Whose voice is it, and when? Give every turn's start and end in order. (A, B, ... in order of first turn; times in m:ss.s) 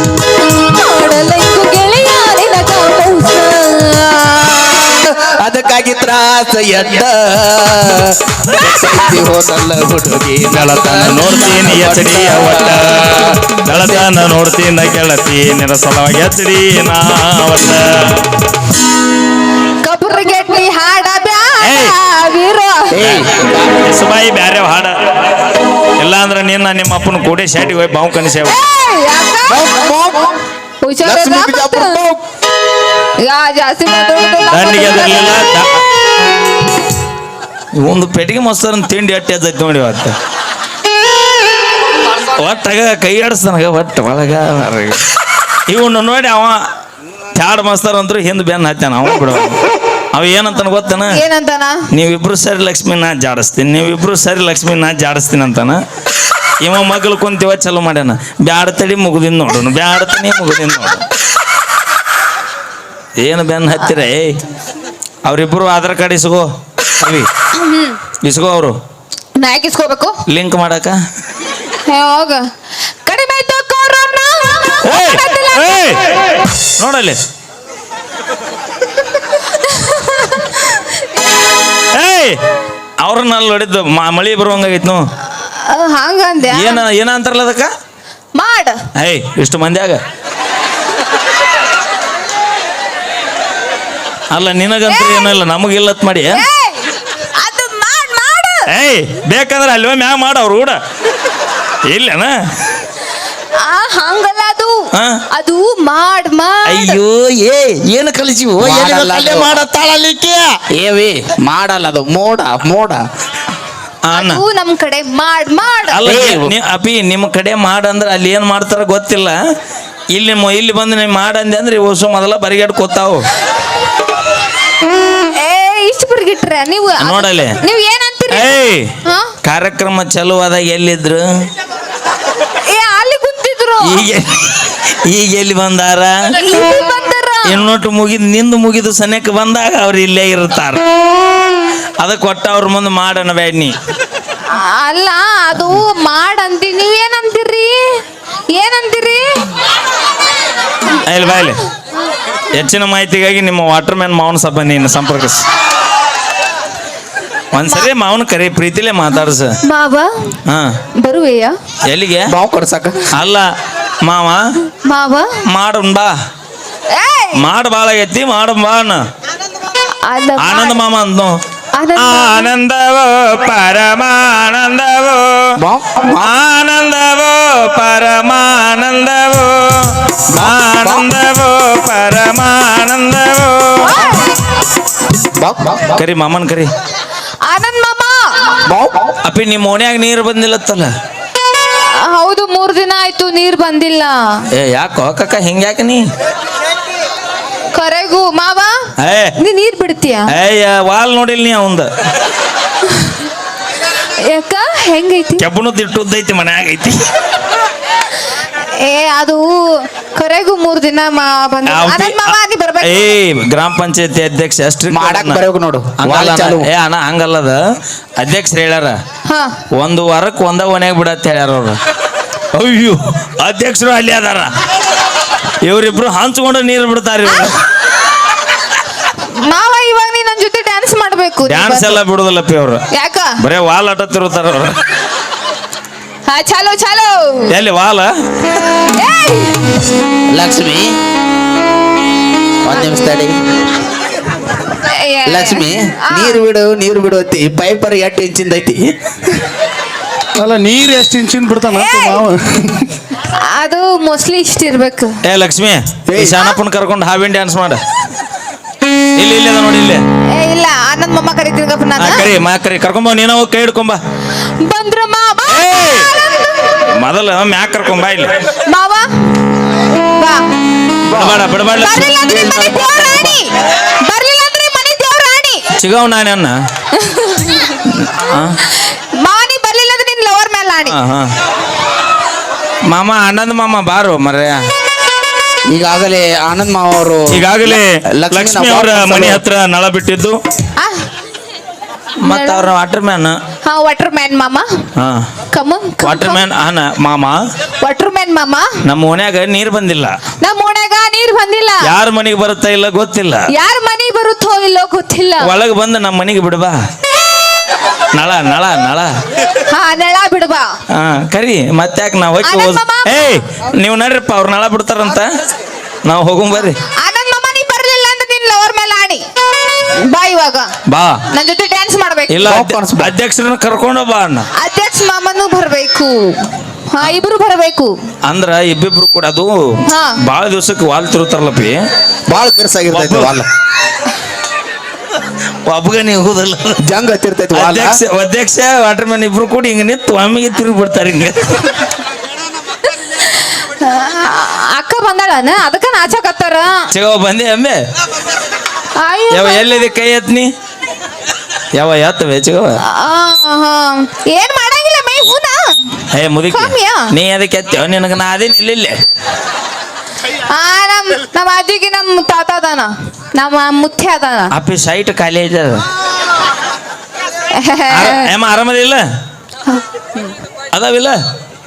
0:00.4-0:04.6 A
0:04.6-0:14.1 B
0:08.6-0:09.1 A
0:10.5-0:18.3 C
0:19.8-0:23.1 A
0:21.6-0:21.9 C
0:22.9-0:23.8 B
0:23.1-0:25.0 C
0:26.0-0:28.6 C
0:28.4-0:29.7 A
0:29.5-0:30.4 B
0:30.8-0:32.0 A
0:31.0-0:32.2 B
0:33.2-0:35.4 A
0:34.5-0:35.8 C
0:37.8-0:40.2 C
0:42.2-0:45.0 C
0:45.7-0:46.6 C
0:47.3-0:49.6 C
0:50.1-0:51.2 C
0:51.1-0:51.8 A
0:51.9-0:55.8 C
0:56.6-1:01.1 C
1:03.2-1:04.4 C
1:05.2-1:06.5 C
1:07.0-1:07.3 C
1:07.5-1:08.0 A
1:08.2-1:08.8 C
1:09.4-1:10.2 A
1:10.3-1:11.0 C
1:11.9-1:12.5 A
1:13.1-1:16.2 A
1:14.8-1:17.2 C
1:19.6-1:21.0 A
1:21.9-1:22.4 C
1:23.0-1:25.0 C
1:25.4-1:26.8 A
1:26.5-1:27.7 C
1:28.4-1:28.8 A
1:29.0-1:30.0 C
1:34.3-1:36.4 C
1:34.9-1:35.4 A
1:36.3-1:38.7 A
1:38.7-1:40.8 C
1:41.9-1:42.4 C
1:43.6-1:47.0 A
1:44.9-1:45.2 C
1:46.7-1:50.6 C
1:48.6-1:49.6 B
1:50.7-1:53.0 B
1:54.0-1:54.4 C
1:54.1-1:56.0 A
1:55.9-1:59.4 C
1:56.0-1:56.5 B
2:00.1-2:03.3 C
2:05.1-2:08.5 A
2:07.0-2:07.6 C
2:08.3-2:08.9 C
2:09.0-2:09.3 A
2:09.4-2:11.3 C
2:12.7-2:14.1 A
2:13.8-2:16.6 C
2:16.4-2:17.6 A
2:17.4-2:20.8 C
2:22.0-2:23.8 C
2:24.5-2:29.4 A
2:31.0-2:31.6 C
2:32.5-2:35.4 C
2:37.5-2:39.6 C
2:39.6-2:40.3 A
2:41.0-2:41.6 A
2:41.8-2:42.3 C
2:42.3-2:43.1 B
2:43.1-2:43.5 C
2:44.0-2:44.4 C
2:44.8-2:45.4 A
2:45.5-2:46.1 C
2:46.9-2:47.4 A
2:47.4-2:49.0 C
2:50.0-2:50.8 A
2:50.4-2:51.4 C
2:51.8-2:52.5 A
2:52.0-2:55.6 C
2:55.6-2:56.3 B
2:56.1-3:04.0 C
3:00.3-3:01.1 B
3:03.8-3:04.3 A
3:05.4-3:06.0 B
3:05.9-3:06.7 C
3:07.5-3:08.6 A
3:08.7-3:09.2 B
3:09.2-3:10.9 C
3:12.0-3:14.4 A
3:14.5-3:16.0 C
3:17.7-3:18.8 A
3:19.0-3:19.4 C
3:19.4-3:20.3 A
3:20.3-3:21.9 C
3:22.9-3:23.2 A
3:24.3-3:25.4 A
3:25.4-3:27.0 C
3:28.8-3:33.1 A
3:31.7-3:35.4 C
3:34.9-3:36.7 B
3:36.0-3:37.6 C
3:38.2-3:39.0 C
3:39.3-3:39.5 A
3:39.8-3:41.8 C
3:42.5-3:44.5 C
3:45.6-3:47.6 C
3:49.4-3:52.0 A
3:51.5-3:52.8 C
3:52.9-3:53.4 A
3:53.4-3:54.8 C
3:56.3-3:57.5 A
3:57.5-3:58.1 C
3:58.8-3:59.7 A
4:00.3-4:00.9 B
4:02.6-4:03.3 B
4:04.8-4:06.4 A
4:05.3-4:08.9 B
4:10.4-4:12.6 D
4:11.6-4:12.3 A
4:13.4-4:15.2 A
4:15.2-4:17.8 C
4:16.1-4:16.4 B
4:19.2-4:20.0 C
4:20.4-4:22.3 A
4:22.0-4:24.0 C
4:24.6-4:26.5 A
4:25.5-4:28.3 C
4:28.7-4:29.1 A
4:30.1-4:30.4 A
4:31.1-4:31.5 B
4:31.1-4:32.2 C
4:31.7-4:35.6 A
4:32.3-4:33.4 B
4:35.8-4:36.6 C
4:37.0-4:37.8 A
4:37.8-4:38.6 C
4:38.7-4:41.0 A
4:40.9-4:41.3 C
4:42.9-4:44.6 C
4:45.7-4:49.4 B
4:47.3-4:50.4 C
4:52.2-4:53.4 C
4:52.2-4:52.7 A
4:53.6-4:54.7 A
4:55.0-4:55.2 C
4:55.5-4:56.4 A
4:56.0-4:57.4 C
4:57.8-4:58.7 A
4:58.8-5:00.1 C
5:00.4-5:01.9 A
5:01.8-5:03.5 C
5:03.5-5:05.5 A
5:05.4-5:06.8 C
5:08.1-5:09.1 C
5:09.7-5:10.7 A
5:10.9-5:15.3 C
5:12.4-5:13.4 A
5:16.0-5:16.8 C
5:17.0-5:19.2 A
5:20.1-5:20.7 A
5:20.9-5:21.2 C
5:21.3-5:22.4 A
5:22.3-5:24.5 C
5:22.4-5:23.2 B
5:24.6-5:27.9 A
5:28.2-5:29.6 C
5:29.9-5:30.2 A
5:30.2-5:31.8 C
5:32.3-5:33.5 B
5:32.9-5:33.4 C
5:35.6-5:36.8 C
5:36.8-5:38.0 B
5:37.5-5:41.8 C
5:42.9-5:46.8 A
5:46.9-5:47.8 C
5:49.0-5:49.9 A
5:49.3-5:50.5 C
5:51.8-5:52.8 C
5:52.9-5:57.1 A
5:56.1-5:59.0 C
6:00.5-6:04.5 A
6:04.5-6:05.8 C
6:07.6-6:08.3 A
6:07.9-6:09.0 C
6:09.7-6:10.3 A
6:10.7-6:11.2 C